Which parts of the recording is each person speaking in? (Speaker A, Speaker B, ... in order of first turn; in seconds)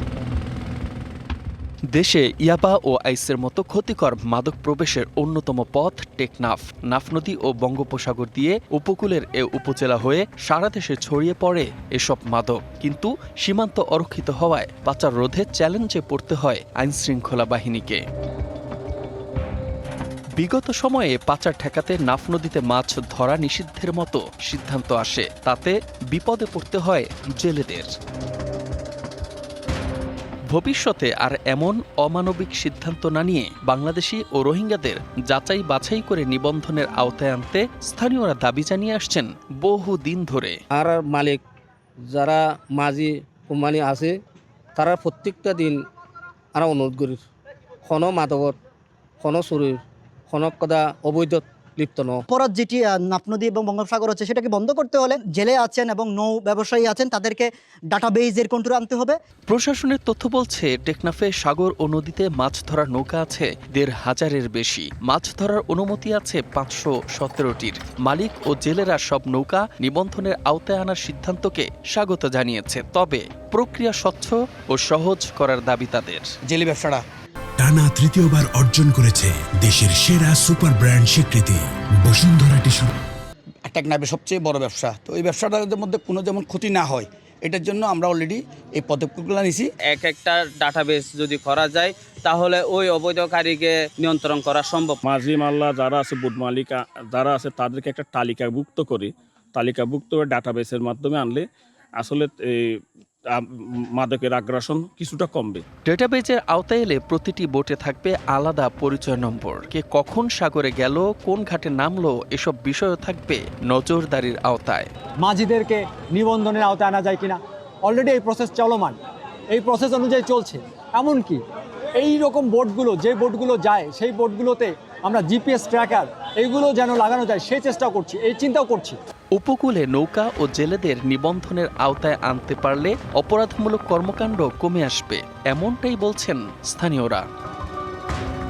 Speaker A: 1.9-18.0, 20.4-27.9, 30.5-40.6, 59.5-76.3, 105.9-114.9, 129.4-137.2
Speaker B: 40.8-41.4, 42.1-44.2, 44.8-45.8, 46.6-47.2, 47.9-48.6, 49.2-52.2
Speaker C: 52.3-59.2
Speaker D: 76.5-77.0, 83.7-89.7
Speaker E: 77.6-82.9
Speaker F: 89.8-95.0
Speaker G: 95.0-101.4, 102.0-102.3, 104.0-105.6
Speaker H: 115.2-119.0, 119.5-121.4, 122.0-129.0